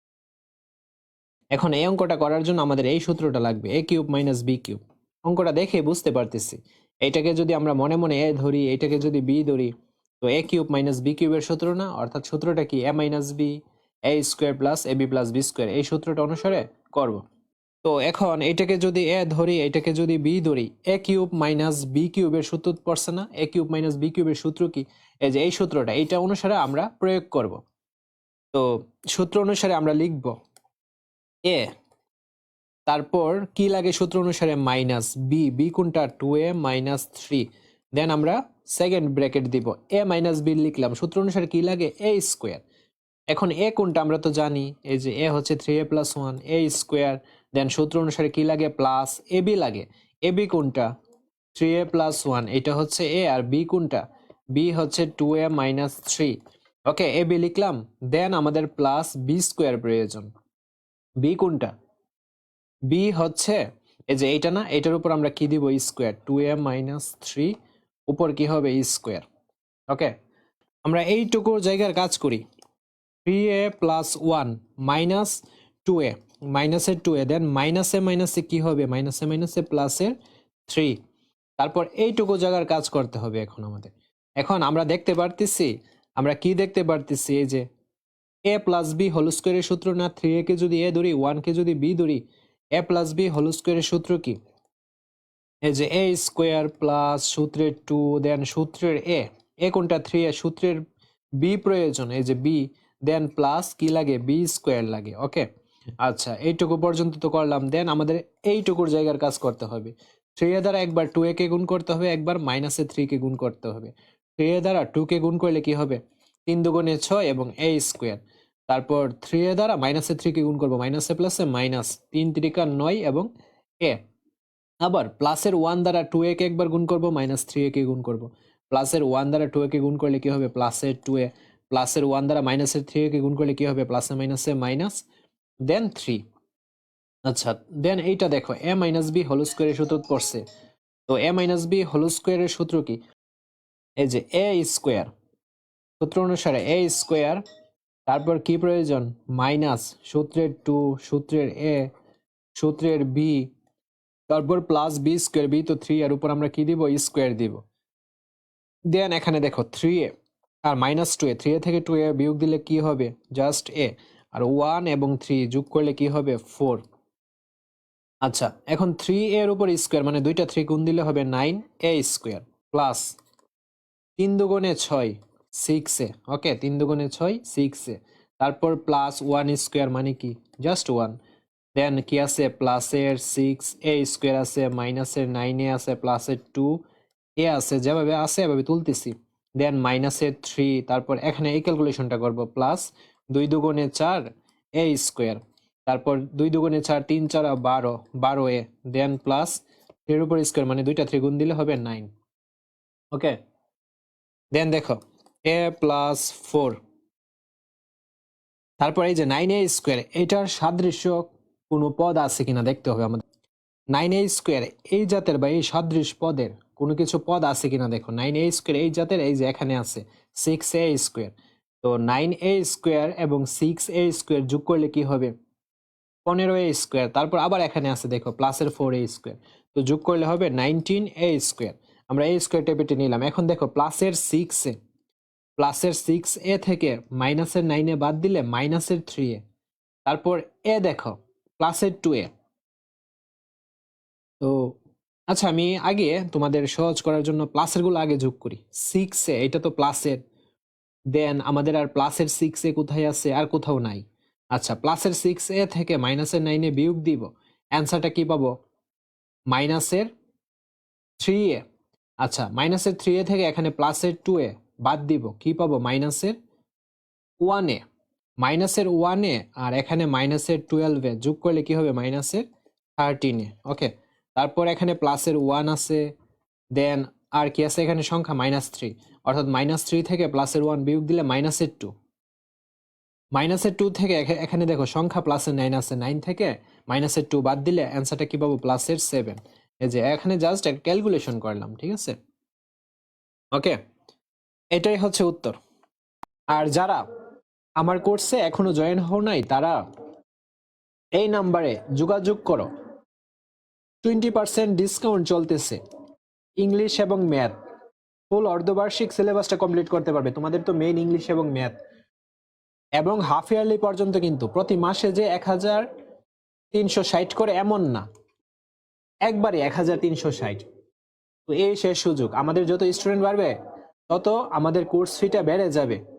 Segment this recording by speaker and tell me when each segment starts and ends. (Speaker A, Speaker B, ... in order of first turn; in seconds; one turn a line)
Speaker A: 1.5-13.5
Speaker A: 14.1-17.2
Speaker A: 17.8-27.6
Speaker A: 28.5-30.3
Speaker A: 32.9-42.6
Speaker A: 43.3-50.9
Speaker A: 51.5-54.0
Speaker A: 54.5-56.3
Speaker A: 56.9-60.3
Speaker A: 61.2-61.7
Speaker A: 62.9-63.6
Speaker A: 64.1-67.5
Speaker A: 68.1-69.2
Speaker A: 70.8-72.4
Speaker A: 73.2-80.1
Speaker A: 80.7-80.9
Speaker A: 81.6-87.6
Speaker A: 88.5-92.2
Speaker A: 92.8-94.3
Speaker A: 95.7-100.8
Speaker A: 101.4-105.5
Speaker A: 106.0-123.3
Speaker A: 124.8-135.0
Speaker A: 135.7-136.2
Speaker A: 137.3-140.4
Speaker A: 141.1-143.0
Speaker A: 144.0-145.1
Speaker A: 146.0-147.4
Speaker A: 148.1-151.9
Speaker A: 152.6-153.5
Speaker A: 154.3-157.6
Speaker A: 158.9-160.1
Speaker A: 160.7-166.8
Speaker A: 168.2-173.1
Speaker A: 174.2-181.2
Speaker A: 181.8-186.7
Speaker A: 187.4-194.2
Speaker A: 194.8-199.6
Speaker A: 200.1-202.1
Speaker A: 204.5-206.8
Speaker A: 208.8-213.2
Speaker A: 213.9-225.3
Speaker A: 226.2-234.8
Speaker A: 235.6-239.4
Speaker A: 240.1-242.3
Speaker A: 244.4-244.7
Speaker A: 245.3-250.2
Speaker A: 251.1-254.0
Speaker A: 254.5-258.5
Speaker A: 259.5-260.1
Speaker A: 261.2-261.6
Speaker A: 262.2-266.4
Speaker A: 267.4-267.8
Speaker A: 268.4-272.4
Speaker A: 273.0-276.0
Speaker A: 276.8-281.9
Speaker A: 283.3-292.1
Speaker A: 293.5-293.8
Speaker A: 294.7-295.6
Speaker A: 296.5-297.0
Speaker A: 297.8-299.8
Speaker A: 301.2-302.7
Speaker A: 304.0-305.8
Speaker A: 306.6-307.5
Speaker A: 308.3-311.8
Speaker A: 313.0-315.8
Speaker A: 316.7-318.0
Speaker A: 319.3-320.6
Speaker A: 321.5-323.5
Speaker A: 324.1-326.0